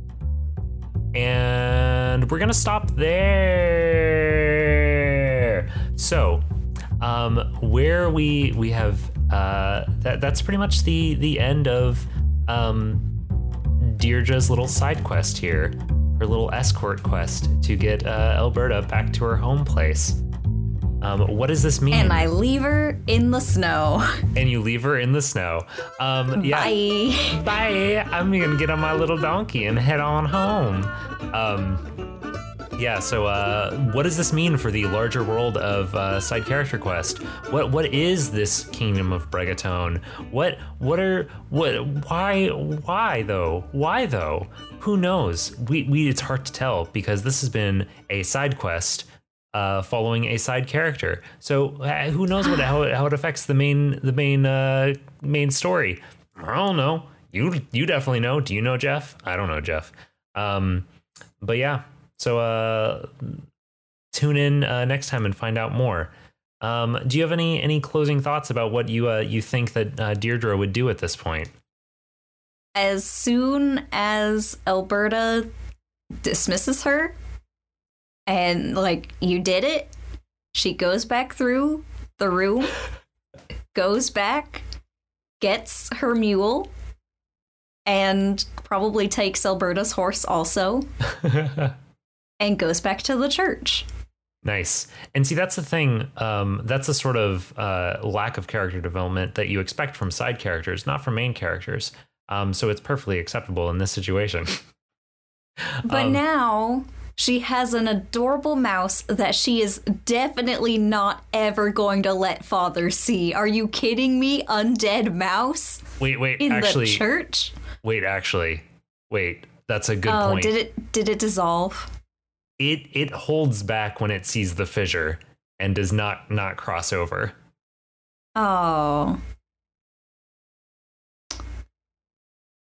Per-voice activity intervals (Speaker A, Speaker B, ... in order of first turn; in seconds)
Speaker A: 1.1-6.5, 7.0-13.1, 13.8-20.2, 21.0-22.3, 24.4-26.8, 27.3-31.9, 32.8-60.9, 61.4-63.5, 64.1-71.5, 91.1-91.8, 94.4-104.6, 105.7-106.2, 116.0-117.1, 117.8-120.5, 122.6-127.4
Speaker B: 21.9-24.2, 26.4-27.4, 72.8-75.5, 76.2-77.2, 78.3-79.9, 80.5-82.8, 83.7-84.6, 85.4-86.7, 87.9-90.9, 92.4-93.9, 105.9-117.5, 120.1-121.9, 128.4-129.2